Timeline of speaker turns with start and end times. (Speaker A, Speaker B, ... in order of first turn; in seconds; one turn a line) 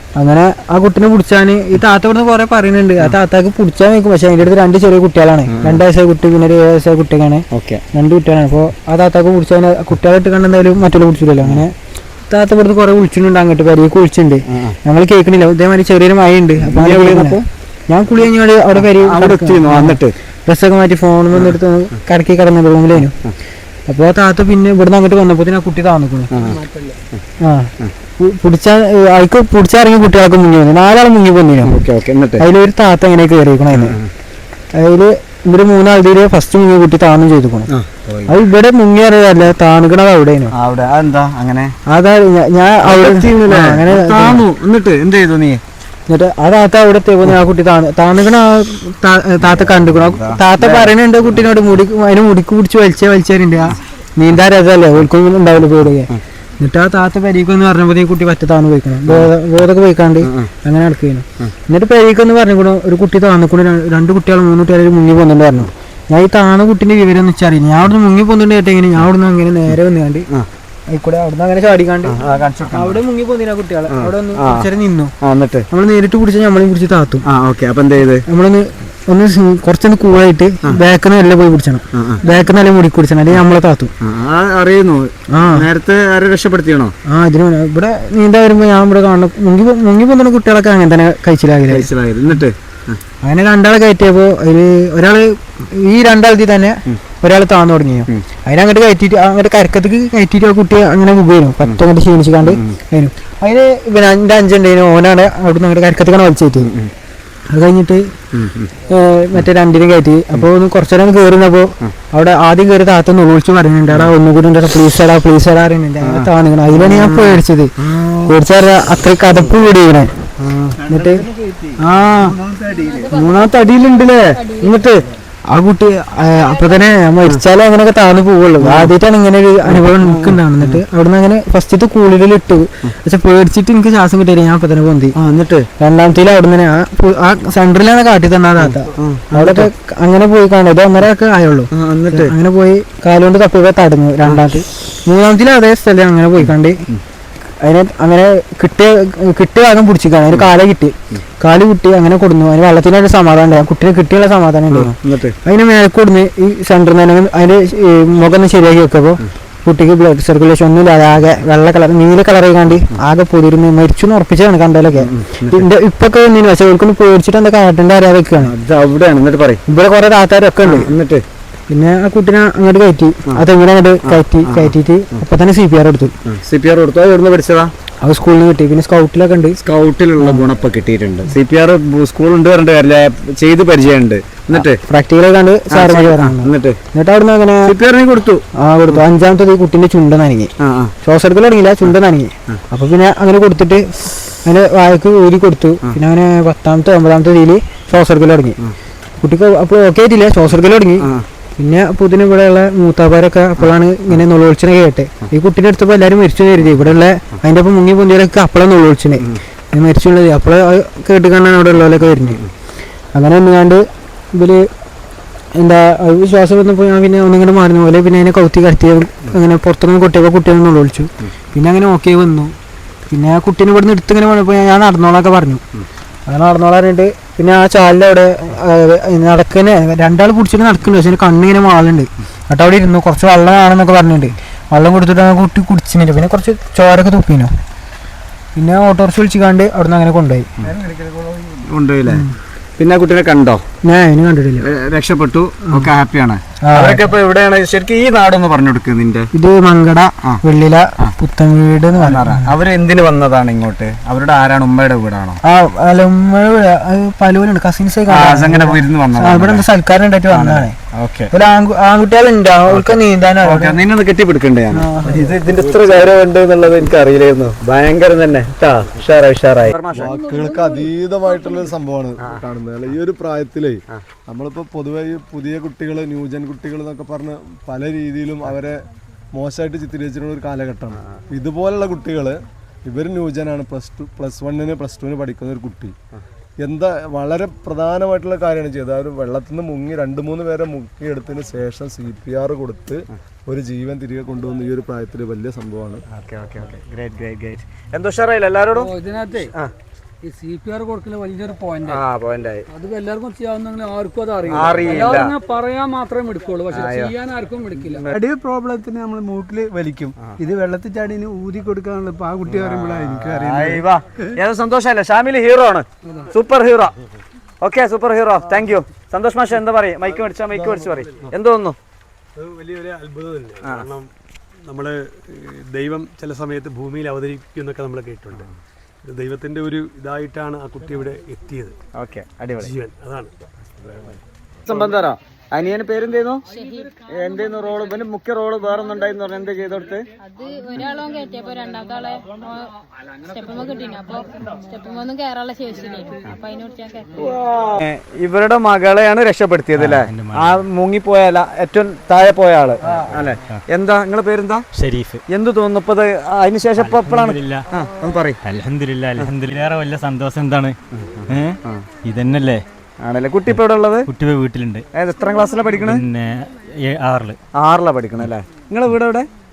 Speaker A: 0.2-11.7
Speaker B: 5.5-5.8
Speaker B: 7.5-7.8
Speaker B: 11.4-11.7
Speaker A: 12.3-23.2
Speaker B: 16.6-17.4
Speaker B: 18.8-20.1
Speaker A: 23.9-26.3
Speaker B: 26.3-26.6
Speaker C: 26.7-26.9
Speaker A: 27.4-31.8
Speaker B: 31.6-32.5
Speaker A: 32.4-34.0
Speaker B: 33.7-34.1
Speaker A: 34.7-37.7
Speaker B: 37.7-38.4
Speaker A: 38.3-40.5
Speaker B: 40.5-41.8
Speaker A: 41.9-44.5
Speaker B: 42.8-45.6
Speaker A: 46.1-70.3
Speaker B: 49.5-51.0
Speaker B: 60.2-60.5
Speaker A: 70.9-72.2
Speaker B: 72.1-73.0
Speaker A: 72.7-75.1
Speaker B: 73.9-74.7
Speaker B: 75.2-75.7
Speaker A: 75.7-77.2
Speaker B: 77.2-78.2
Speaker A: 78.3-83.9
Speaker B: 81.9-82.3
Speaker B: 84.0-86.9
Speaker A: 85.3-85.7
Speaker A: 87.1-91.9
Speaker B: 91.7-93.0
Speaker A: 93.2-106.7
Speaker B: 102.4-102.8
Speaker B: 106.6-106.9
Speaker A: 107.5-108.1
Speaker B: 108.3-108.7
Speaker A: 108.9-117.7
Speaker B: 116.0-118.3
Speaker A: 118.3-120.2
Speaker B: 120.4-121.1
Speaker A: 120.8-121.3
Speaker A: 121.8-122.4
Speaker D: 122.7-124.8
Speaker B: 123.0-125.1
Speaker A: 125.5-135.2
Speaker B: 128.6-128.9
Speaker B: 129.7-130.8
Speaker B: 135.2-135.7
Speaker A: 135.8-146.8
Speaker B: 138.6-139.7
Speaker B: 141.7-142.4
Speaker B: 144.3-144.6
Speaker B: 146.4-146.9
Speaker A: 147.6-168.5
Speaker B: 154.7-155.4
Speaker B: 164.9-165.7
Speaker B: 168.4-169.6
Speaker A: 169.7-170.9
Speaker B: 170.6-171.2
Speaker A: 171.7-176.1
Speaker B: 174.0-174.8
Speaker B: 176.2-177.7
Speaker A: 178.0-179.6
Speaker B: 179.6-184.8
Speaker A: 184.5-187.7
Speaker B: 185.7-186.8
Speaker B: 187.6-189.0
Speaker A: 188.6-190.5
Speaker B: 190.6-190.9
Speaker A: 191.0-198.6
Speaker A: 199.2-212.4
Speaker B: 201.0-201.3
Speaker A: 213.1-214.7
Speaker A: 215.6-222.6
Speaker A: 223.1-225.6
Speaker A: 226.3-237.5
Speaker A: 238.6-240.5
Speaker E: 240.9-241.3
Speaker B: 241.5-242.3
Speaker B: 242.8-243.6
Speaker A: 243.8-244.7
Speaker B: 244.6-249.3
Speaker A: 246.6-247.1
Speaker A: 249.3-252.5
Speaker B: 251.9-255.4
Speaker A: 255.4-260.8
Speaker B: 258.1-259.7
Speaker B: 260.3-261.3
Speaker A: 261.3-263.8
Speaker B: 262.7-270.1
Speaker A: 264.7-265.4
Speaker E: 269.9-285.9
Speaker D: 270.0-271.6
Speaker E: 286.6-296.0
Speaker B: 296.1-298.9
Speaker C: 298.8-299.5
Speaker C: 300.2-302.0
Speaker B: 301.9-302.7
Speaker C: 302.7-308.1
Speaker B: 304.5-305.3
Speaker B: 306.7-307.1
Speaker B: 307.8-308.1
Speaker F: 308.1-313.9
Speaker B: 312.4-317.0
Speaker B: 317.6-321.8
Speaker E: 320.6-321.0
Speaker G: 322.4-324.1
Speaker B: 323.6-323.9
Speaker G: 324.6-328.5
Speaker G: 329.1-331.8
Speaker B: 332.0-332.7
Speaker G: 332.6-333.3
Speaker B: 334.7-336.4
Speaker D: 336.5-337.3
Speaker B: 337.1-340.1
Speaker D: 340.2-342.7
Speaker D: 343.2-347.2
Speaker B: 347.2-354.6
Speaker H: 349.8-350.6
Speaker H: 352.9-353.6
Speaker H: 354.8-355.2
Speaker B: 355.3-358.4
Speaker H: 356.8-357.6
Speaker H: 358.4-360.8
Speaker H: 361.3-362.6
Speaker B: 363.0-364.1
Speaker H: 364.1-364.9
Speaker B: 364.9-366.1
Speaker H: 365.7-367.4
Speaker B: 367.6-369.3